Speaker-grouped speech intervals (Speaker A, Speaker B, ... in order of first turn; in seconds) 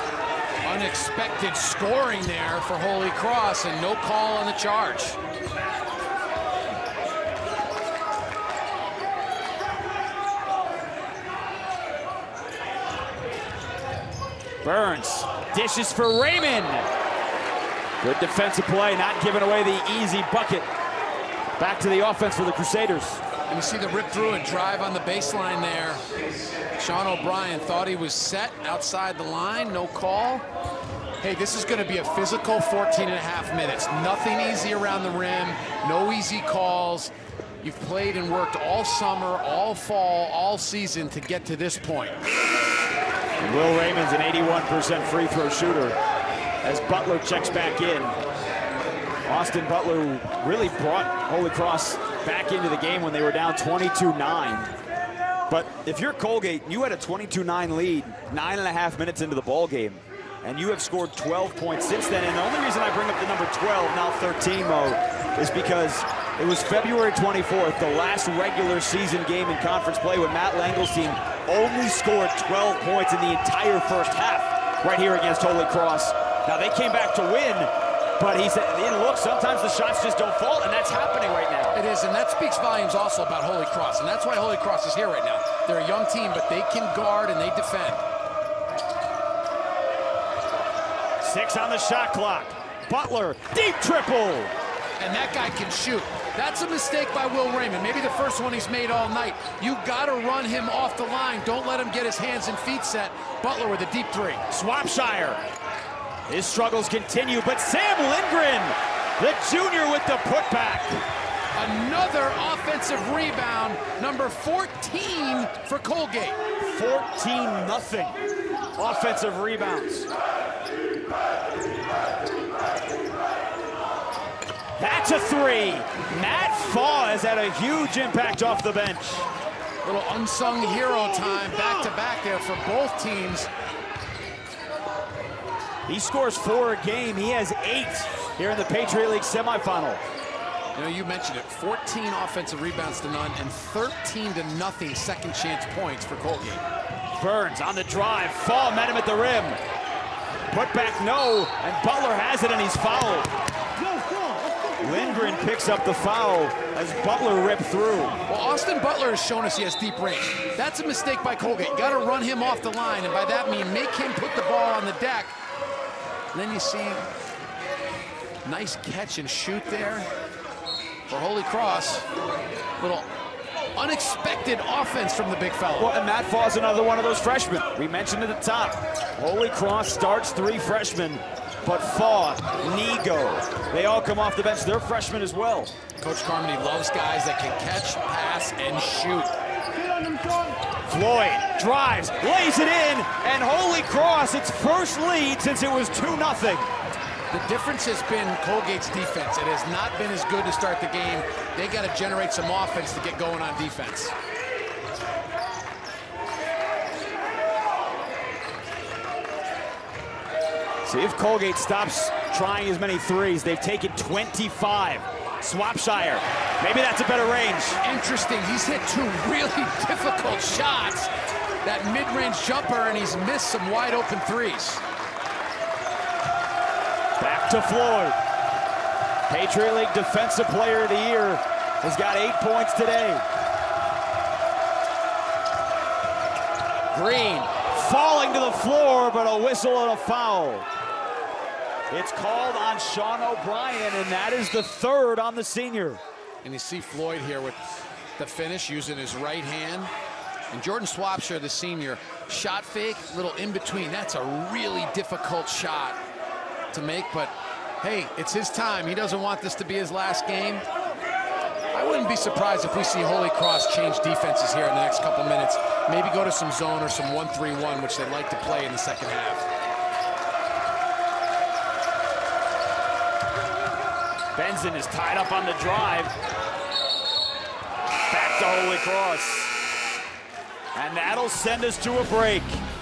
Speaker A: 0.6-5.2, 23.5-26.0, 26.8-30.4, 31.2-42.2, 81.7-88.0, 95.0-104.5, 111.5-116.4, 129.8-133.5, 140.8-146.6, 158.3-165.3, 166.3-167.0, 168.4-170.1, 171.1-172.1, 172.8-173.1, 173.8-175.9, 186.0-189.3, 197.3-204.1, 217.8-221.1, 221.6-224.8, 236.9-237.5, 246.4-247.6, 248.2-249.9, 250.5-256.0, 256.7-260.6, 261.7-269.4
Speaker B: 14.6-16.9, 18.0-20.7, 21.6-23.2, 43.4-46.0, 46.6-48.2, 49.3-54.7, 55.5-81.8, 91.2-94.5, 104.5-105.4, 106.3-111.0, 116.6-118.2, 118.8-120.1, 124.8-129.3, 135.9-140.0, 147.2-149.6, 150.5-153.3, 154.8-158.2, 175.8-185.7, 190.0-196.7, 210.8-217.8, 227.2-228.2, 229.3-233.2, 237.6-240.7, 241.9-246.0, 274.4-276.1, 278.1-279.6, 280.8-282.6